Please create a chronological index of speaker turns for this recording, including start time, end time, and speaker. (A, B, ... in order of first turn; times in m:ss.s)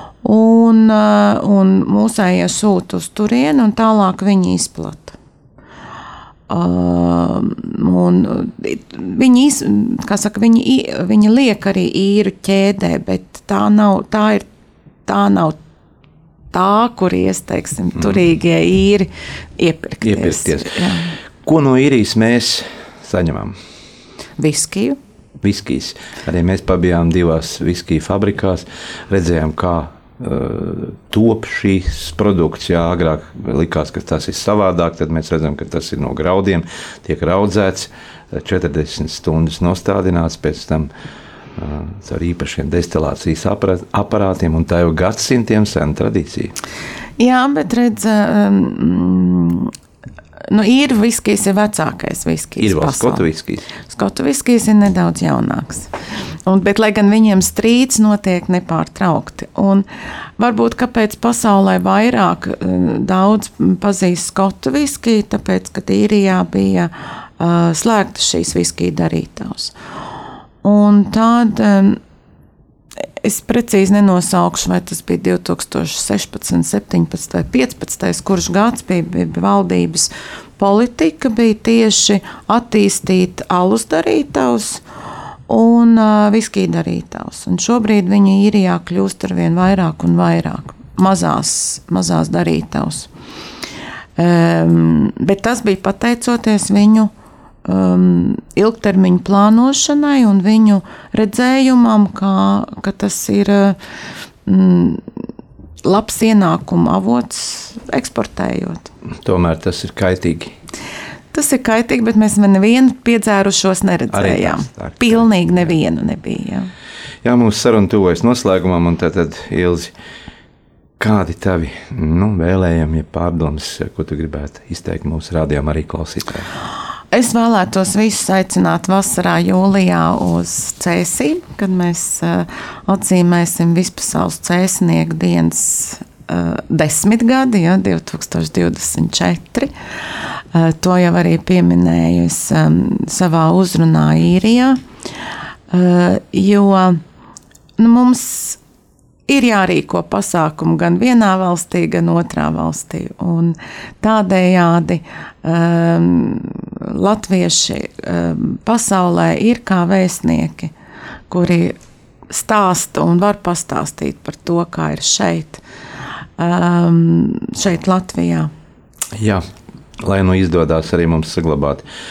0:00.2-0:05.2 A
0:06.5-0:14.4 A
0:15.1-0:15.6 A
0:16.5-0:21.1 A
0:20.0-0:20.7 B
0:21.4-0:23.6 B
0:24.4-0:25.0 A
0:25.4-0:40.9 B
0:41.6-0:46.5 B
0:47.2-0:49.7 A
0:50.5-0:53.3 A
0:52.6-0:53.7 B
0:53.8-0:55.9 A
0:56.4-0:59.9 A
1:00.4-1:09.7 A
1:10.6-1:12.0 A
1:13.2-1:24.8 A
1:25.5-1:33.1 A
1:34.2-1:37.1 A
1:37.6-1:43.8 A
1:44.4-1:45.0 A
1:45.8-1:48.9 A
1:49.2-1:50.6 B
1:51.3-1:56.7 A
1:54.1-1:55.7 B
1:57.2-1:59.9 B
2:01.0-2:06.5 B
2:07.1-2:19.7 A
2:20.5-2:24.8 A
2:25.7-2:27.0 A
2:27.8-2:28.6 A
2:29.3-2:40.7 A
2:41.3-2:41.8 A
2:42.3-2:45.6 A
2:46.4-2:48.5 A
2:49.1-2:49.4 B
2:50.0-2:51.8 B